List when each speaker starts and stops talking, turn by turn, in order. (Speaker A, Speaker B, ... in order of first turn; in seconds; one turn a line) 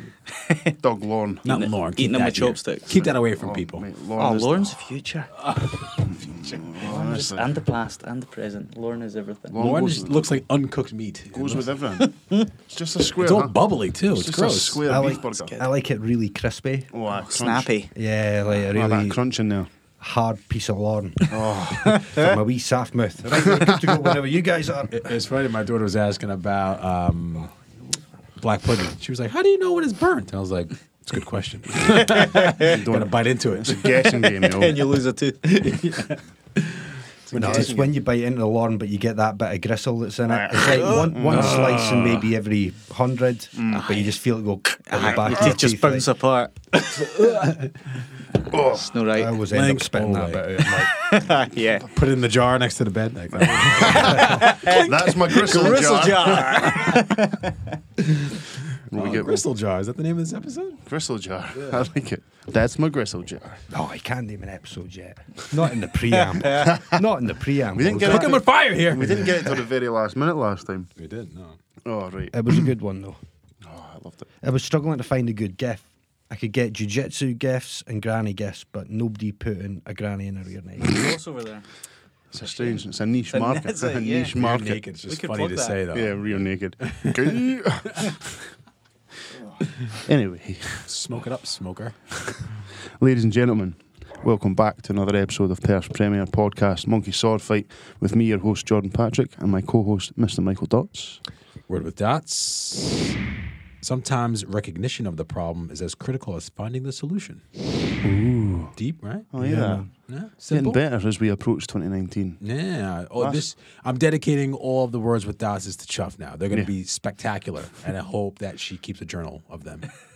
Speaker A: 0.5-0.7
Speaker B: 0.8-1.4
Speaker A: 1.4-3.1
Speaker C: 1.4-3.9
Speaker B: 3.4-4.8
Speaker A: 4.2-5.3
Speaker C: 5.5-5.7
Speaker B: 6.0-7.5
Speaker A: 6.4-9.6
Speaker B: 9.5-10.3
Speaker C: 9.6-11.7
Speaker B: 11.3-12.1
Speaker A: 12.0-12.5
Speaker B: 12.7-15.6
Speaker C: 13.2-14.8
Speaker D: 14.9-16.9
Speaker A: 15.0-15.7
Speaker B: 16.9-17.7
Speaker A: 17.1-17.9
Speaker D: 17.9-19.2
Speaker B: 18.5-19.7
Speaker D: 20.0-21.3
Speaker B: 21.3-22.1
Speaker A: 21.8-22.3
Speaker D: 22.1-25.0
Speaker B: 23.3-24.2
Speaker C: 24.9-27.5
Speaker C: 28.4-33.8
Speaker B: 31.9-34.9
Speaker A: 31.9-32.8
Speaker A: 33.9-36.2
Speaker B: 37.3-38.0
Speaker D: 37.3-46.1
Speaker B: 40.2-41.9
Speaker C: 40.9-42.3
Speaker B: 43.5-43.9
Speaker A: 43.7-44.2
Speaker A: 44.8-46.5
Speaker C: 46.7-47.9
Speaker B: 48.5-49.0
Speaker A: 48.5-49.4
Speaker D: 49.1-50.9
Speaker C: 49.5-50.7
Speaker A: 50.9-51.9
Speaker C: 51.9-54.7
Speaker B: 53.5-56.8
Speaker A: 53.8-57.8
Speaker C: 55.3-55.8
Speaker C: 58.0-60.8
Speaker B: 58.9-59.4
Speaker B: 60.9-63.6
Speaker C: 61.5-61.9
Speaker D: 63.7-68.4
Speaker A: 66.1-66.8
Speaker B: 66.5-67.0
Speaker B: 67.7-70.9
Speaker C: 67.9-69.3
Speaker C: 71.0-71.6
Speaker B: 71.8-72.7
Speaker D: 72.3-73.2
Speaker B: 73.6-74.3
Speaker D: 74.4-81.1
Speaker A: 80.8-81.7
Speaker B: 82.3-84.8
Speaker A: 82.4-84.3
Speaker C: 84.4-87.3
Speaker A: 85.1-85.8
Speaker B: 85.9-88.5
Speaker B: 89.9-90.9
Speaker C: 90.9-92.0
Speaker B: 92.2-101.2
Speaker C: 101.7-103.2
Speaker C: 103.8-107.4
Speaker B: 108.0-108.7
Speaker C: 108.8-109.3
Speaker B: 109.3-109.8
Speaker D: 109.4-109.9
Speaker C: 110.1-110.8
Speaker B: 110.5-112.4
Speaker C: 112.4-119.9
Speaker B: 113.2-113.4